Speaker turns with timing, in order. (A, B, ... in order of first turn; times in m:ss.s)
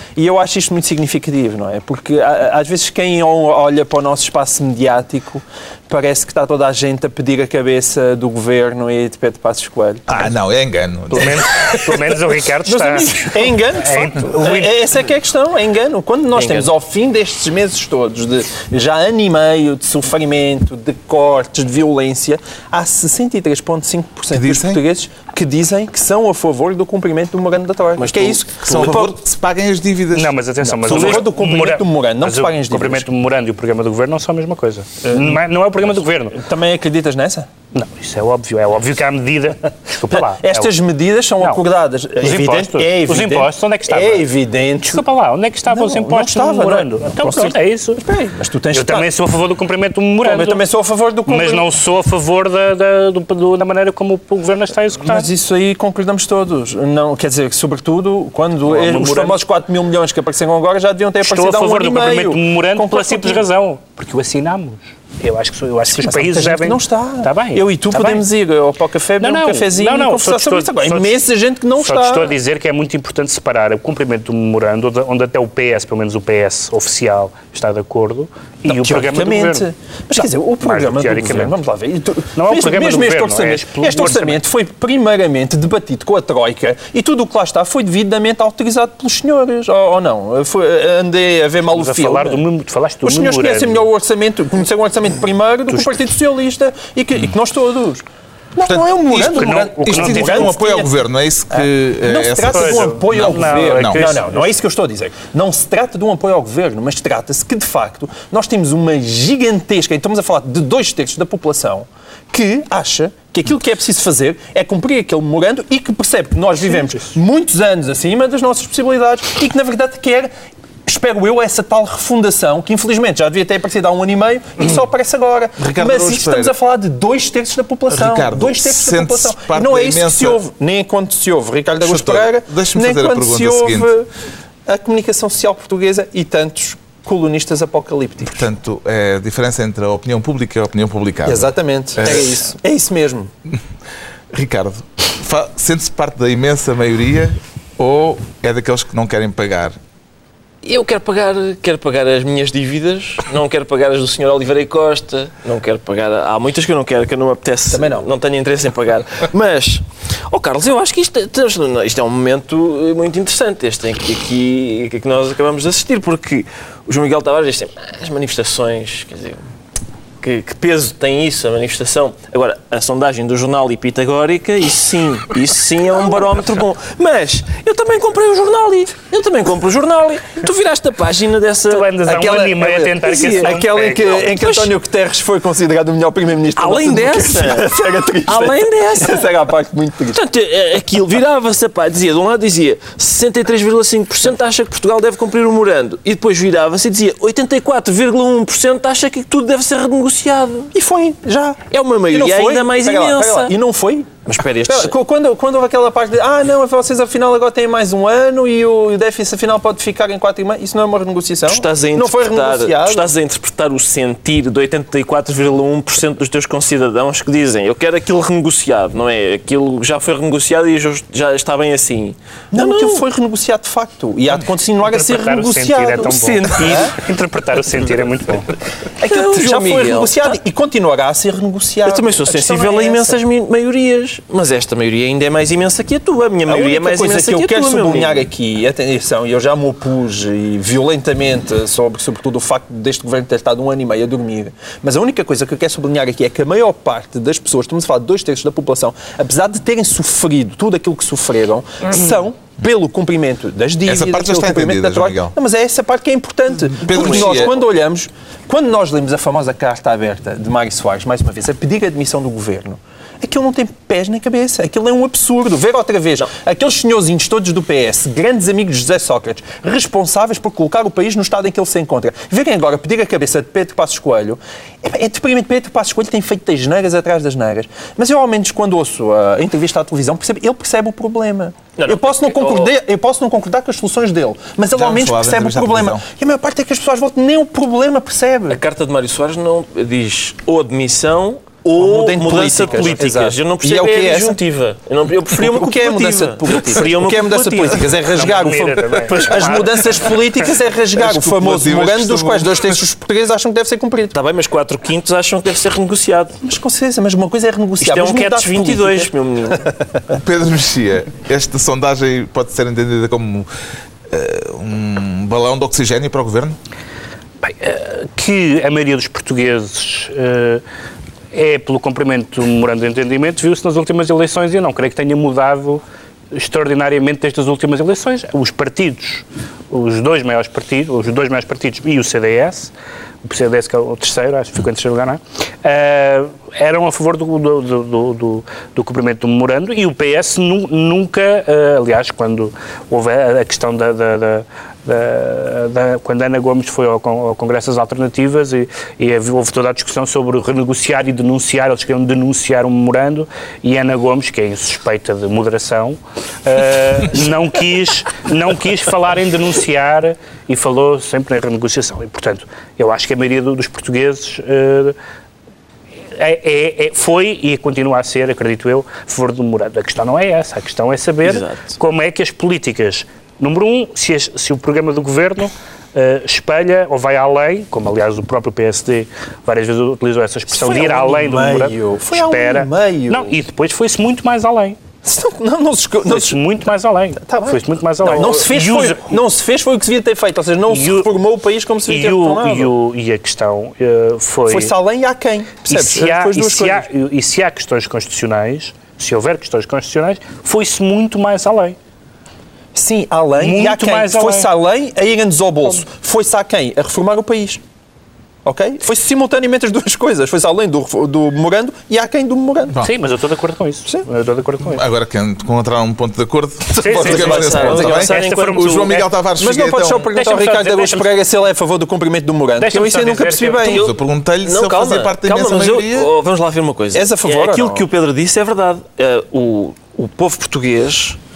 0:00.2-0:10.3 A
0:10.1-0:12.0 B
0:11.1-0:14.7 C
0:12.6-0:28.4 A
0:16.3-0:16.7 D
0:24.3-0:24.8 B
0:28.0-0:29.2 D
0:28.6-0:30.8 B
0:30.1-0:36.4 C
0:30.8-0:33.0 A
0:30.9-0:31.2 D
0:35.0-0:35.4 A
0:36.3-0:37.5 A
0:37.7-0:40.7 C
0:40.1-0:45.0 A
0:42.2-0:44.3 C
0:44.8-0:48.0 C
0:45.7-0:49.1 A
0:48.7-0:50.6 C
0:50.2-0:51.6 A
0:51.3-0:55.3 C
0:55.0-1:03.4 A
0:58.6-0:59.4 C
1:01.2-1:08.2 C
1:05.9-1:12.3 A
1:09.2-1:11.2 C
1:11.8-1:19.6 C
1:18.6-1:32.4 A
1:20.2-1:21.6 C
1:22.3-1:24.4 C
1:31.7-1:33.9 C
1:33.0-1:40.9 A
1:38.6-1:44.1 B
1:39.3-1:40.5 C
1:41.5-2:00.3 A
1:42.4-1:44.4 C
2:00.8-2:14.1 A
2:05.6-2:06.5 B
2:07.9-2:10.4 B
2:11.8-2:13.9 B
2:14.6-2:18.5 A
2:18.3-2:22.4 B
2:21.2-2:23.3 A
2:24.3-2:29.8 B
2:30.6-2:49.4 D
2:37.7-2:38.1 A
2:50.2-3:02.0 D
3:01.7-3:04.3 C
3:02.0-3:10.2 A
3:03.1-3:04.7 D
3:06.5-3:07.7 D
3:08.2-3:09.2 D
3:10.1-3:20.7 D
3:20.7-3:24.1 A
3:21.7-3:23.5 D
3:24.2-3:24.9 D
3:24.7-3:33.1 A
3:31.5-3:43.0 D
3:42.5-3:46.9 A
3:44.9-3:48.5 C
3:46.0-3:46.9 D
3:49.0-3:53.2 A
3:49.0-3:50.3 D
3:51.8-3:58.3 D
3:56.4-4:48.6 A
4:13.8-4:15.3 B
4:16.7-4:17.5 B
4:16.9-4:17.3 D
4:41.8-4:42.7 D
4:44.7-4:46.0 B
4:48.5-4:58.0 D
4:51.8-4:54.4 A
4:55.3-5:04.1 A
4:58.1-5:00.1 C
4:59.1-5:00.1 D
5:00.9-5:02.8 B
5:04.1-5:06.4 D
5:06.4-5:10.2 A
5:07.8-5:09.7 D
5:10.1-5:13.5 B
5:14.1-5:16.6 B
5:17.4-5:20.6 C
5:21.3-5:25.8 C
5:26.3-5:32.7 C
5:33.2-6:05.0 C
6:06.1-6:24.8 C
6:11.2-6:11.8 D
6:20.5-6:23.3 A
6:25.0-6:26.4 A
6:26.0-6:29.1 C
6:27.2-6:32.7 A
6:28.0-6:28.4 D
6:30.7-6:31.1 C
6:31.9-6:34.7 C
6:34.5-6:36.8 A
6:35.7-6:41.8 C
6:42.7-6:47.6 A
6:43.4-6:44.5 C
6:48.4-6:52.8 A
6:52.8-6:54.8 C
6:54.7-7:00.1 B
6:56.8-6:58.1 A
6:56.8-6:58.7 C
6:56.8-6:59.1 D
6:59.4-7:03.9 A
7:00.1-7:01.2 C
7:02.6-7:03.8 C
7:03.6-7:06.1 B
7:03.6-7:11.2 D
7:06.9-7:07.9 A